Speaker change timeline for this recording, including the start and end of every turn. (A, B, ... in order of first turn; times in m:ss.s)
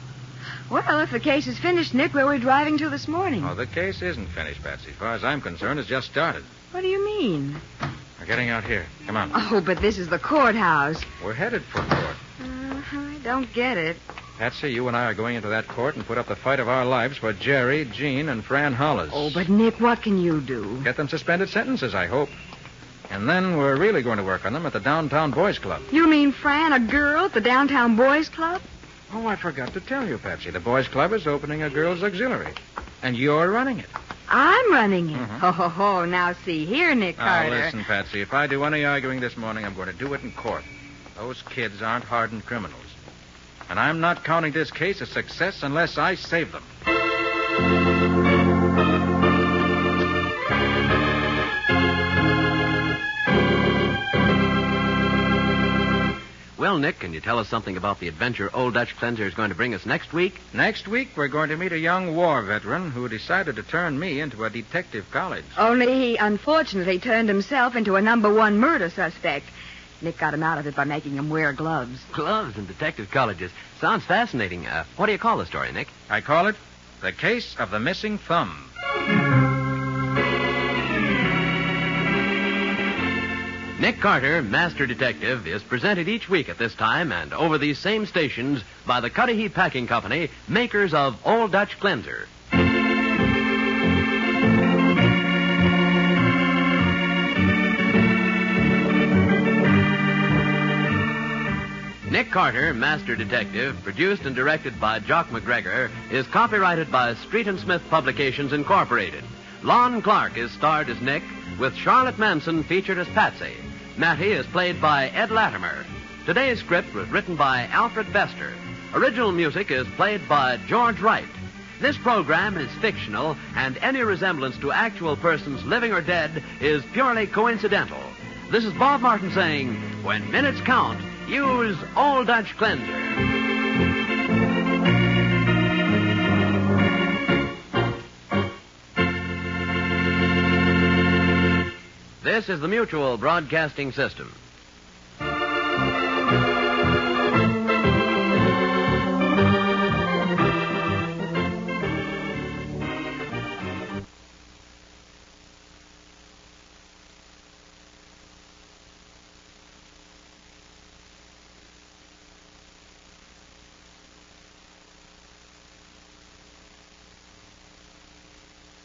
0:00.7-0:03.5 A
0:03.4-0:06.5 B
0:06.7-0:07.6 A
0:08.2-0:09.4 B
0:09.3-0:11.1 A
0:11.2-0:12.2 B
0:12.4-0:14.0 A
0:14.4-0:19.4 B
0:19.1-0:20.9 A
0:20.8-0:22.3 B
0:23.1-0:25.9 B
0:25.9-0:28.6 A
0:29.1-0:33.9 B
0:34.3-0:37.8 A
0:35.1-0:35.4 B
0:37.2-0:43.0 B
0:43.7-0:46.7 B
0:56.6-1:00.4 C
1:00.5-1:05.5 B
1:05.6-1:12.1 A
1:12.1-1:15.9 C
1:16.1-1:18.7 B
1:23.8-1:32.3 C
1:42.1-2:13.2 C
2:22.2-2:24.4 C